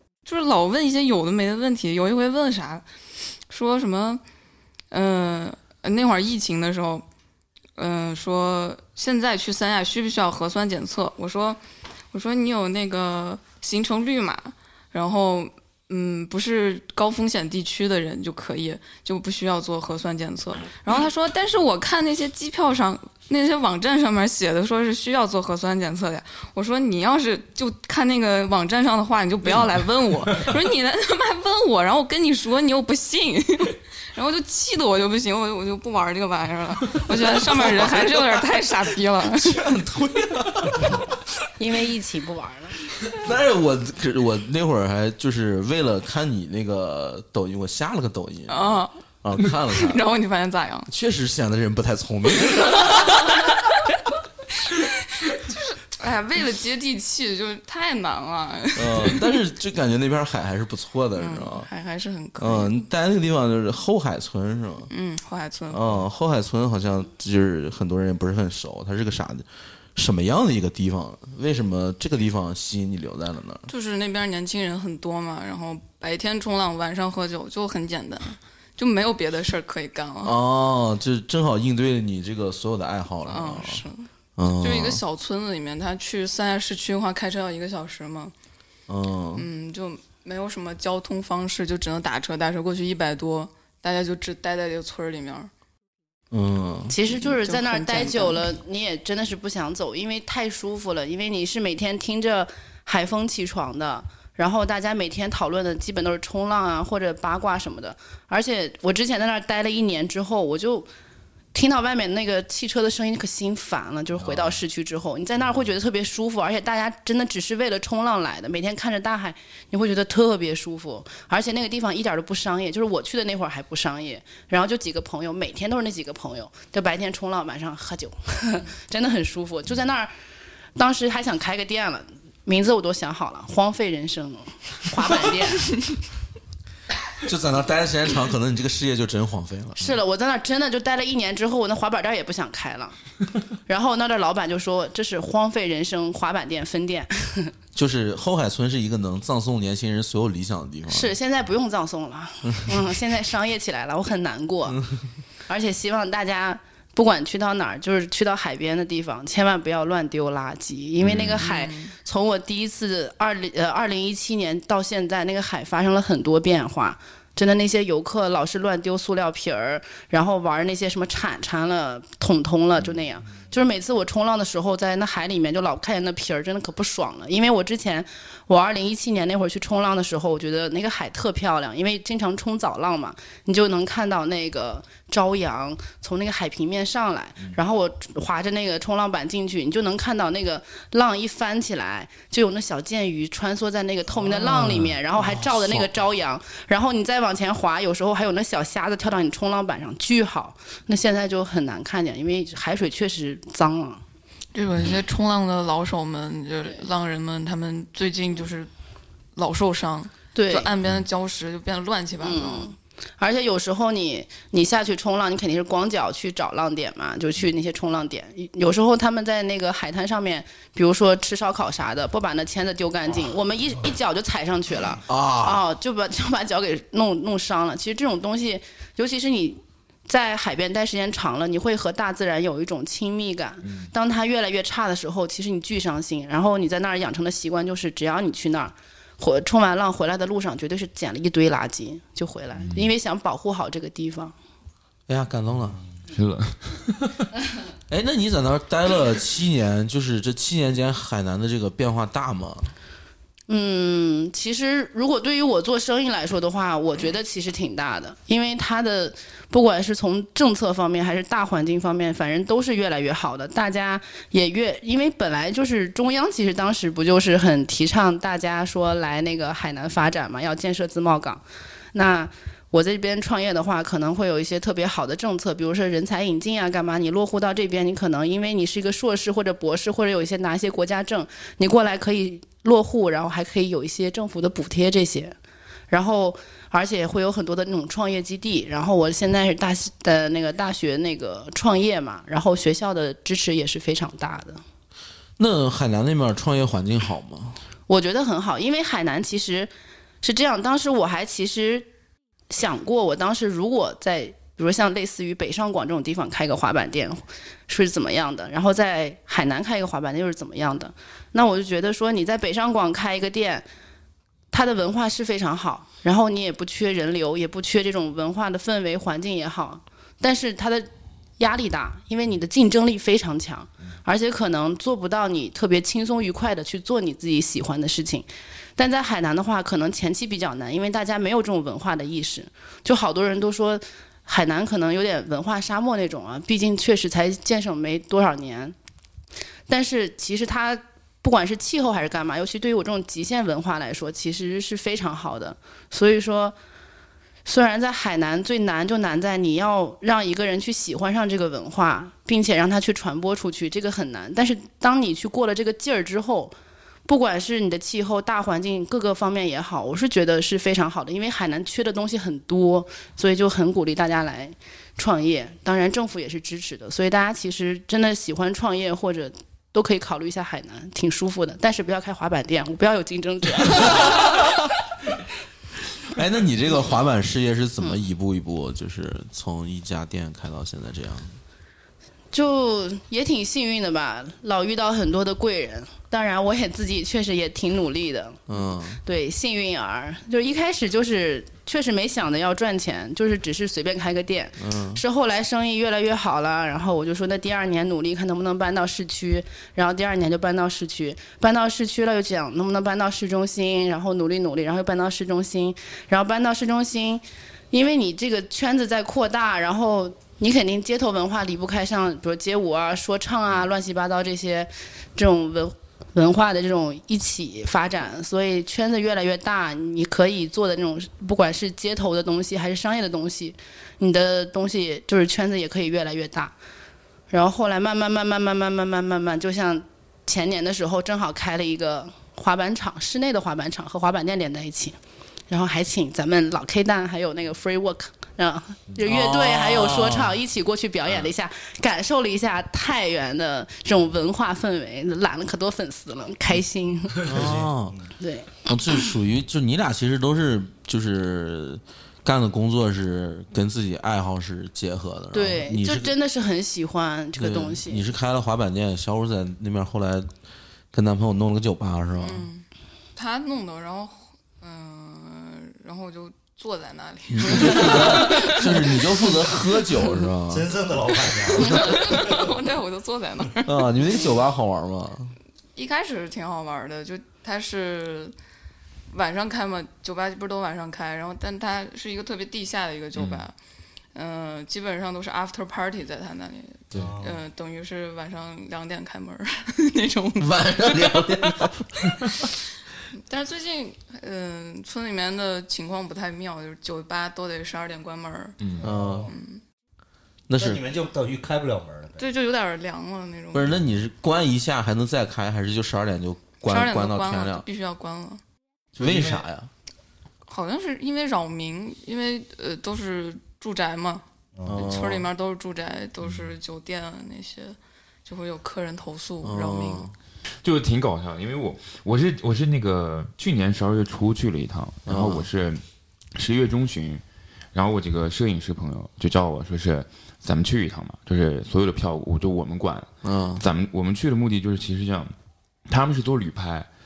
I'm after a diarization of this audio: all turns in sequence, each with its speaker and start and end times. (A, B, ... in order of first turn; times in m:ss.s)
0:00.2-0:02.8 A
0:03.5-0:04.2 A
0:04.9-0:07.0 A
0:07.8-0:11.6 A
0:12.1-0:39.7 A
0:37.5-0:38.4 B
0:39.3-0:41.0 B
0:41.6-0:42.8 C
0:43.1-0:50.0 B
0:48.5-0:48.9 A
0:49.7-0:50.9 A
0:50.9-0:53.1 B
0:54.6-0:59.4 A
0:58.7-1:01.7 B
1:01.2-1:02.8 A
1:02.4-1:04.9 B
1:04.9-1:05.8 A
1:05.7-1:13.7 B
1:13.7-1:20.4 A
1:20.2-1:23.8 B
1:23.3-1:24.1 A
1:24.4-1:25.0 B
1:24.6-1:28.3 A
1:28.9-1:29.4 B
1:29.4-1:35.5 A
1:36.3-1:36.9 B
1:36.9-1:50.9 C
1:37.1-1:38.5 A
1:51.5-2:10.1 C
2:10.8-2:15.7 C
2:17.2-2:20.0 B
2:19.8-2:23.0 C
2:23.7-2:27.5 C
2:27.7-2:31.1 B
2:30.9-2:34.8 C
2:32.5-2:32.7 B
2:35.5-3:24.0 C
2:41.0-2:41.4 B
2:41.4-2:41.9 A
3:15.3-3:15.8 B
3:24.5-3:28.7 A
3:29.3-3:32.7 A
3:30.3-3:30.7 C
3:32.2-4:04.3 C
3:45.1-3:45.6 B
4:05.1-4:05.8 B
4:06.1-4:07.3 D
4:07.9-4:12.7 B
4:13.5-4:31.4 C
4:31.9-4:45.4 C
4:45.9-4:54.6 C
4:55.4-4:57.6 B
4:57.9-4:59.7 C
5:00.2-5:01.9 C
5:02.5-5:13.6 C
5:14.5-5:38.7 C
5:39.7-5:46.6 C
5:47.4-5:56.5 C
5:57.0-6:14.5 C
6:16.1-6:21.4 B
6:22.3-6:28.4 C
6:28.5-6:29.0 B
6:29.0-7:06.5 C
6:34.6-6:35.0 B
7:07.3-7:15.0 C
7:15.5-7:27.2 C
7:19.0-7:20.3 B
7:27.2-7:28.0 B
7:27.2-7:28.1 E
7:28.2-7:28.6 C
7:28.6-7:36.1 B
7:35.3-7:38.0 C
7:37.4-7:40.3 B
7:40.9-7:42.5 B
7:42.2-7:49.3 A
7:47.3-7:50.7 B
7:50.5-7:52.5 E
7:51.6-7:53.8 A
7:53.6-7:55.4 B
7:55.7-7:58.3 A
7:59.1-8:03.5 A
8:04.1-8:11.6 A
8:06.9-8:07.4 E
8:10.4-8:12.1 B
8:13.3-8:18.6 A
8:18.6-8:18.9 D
8:18.8-8:19.3 E
8:18.8-8:19.3 B
8:19.3-8:19.6 A
8:20.5-8:20.8 B
8:20.6-8:22.2 E
8:22.2-8:23.7 A
8:23.5-8:27.6 B
8:26.6-8:28.4 A
8:29.0-8:29.4 E
8:29.0-8:29.7 B
8:30.5-8:40.1 A
8:34.6-8:34.9 E
8:34.6-8:35.2 B
8:39.4-8:40.1 B
8:40.5-8:45.8 D
8:45.1-8:45.5 B
8:46.3-8:47.2 D
8:47.7-8:55.3 D
8:53.2-8:53.6 B
8:55.9-8:56.9 D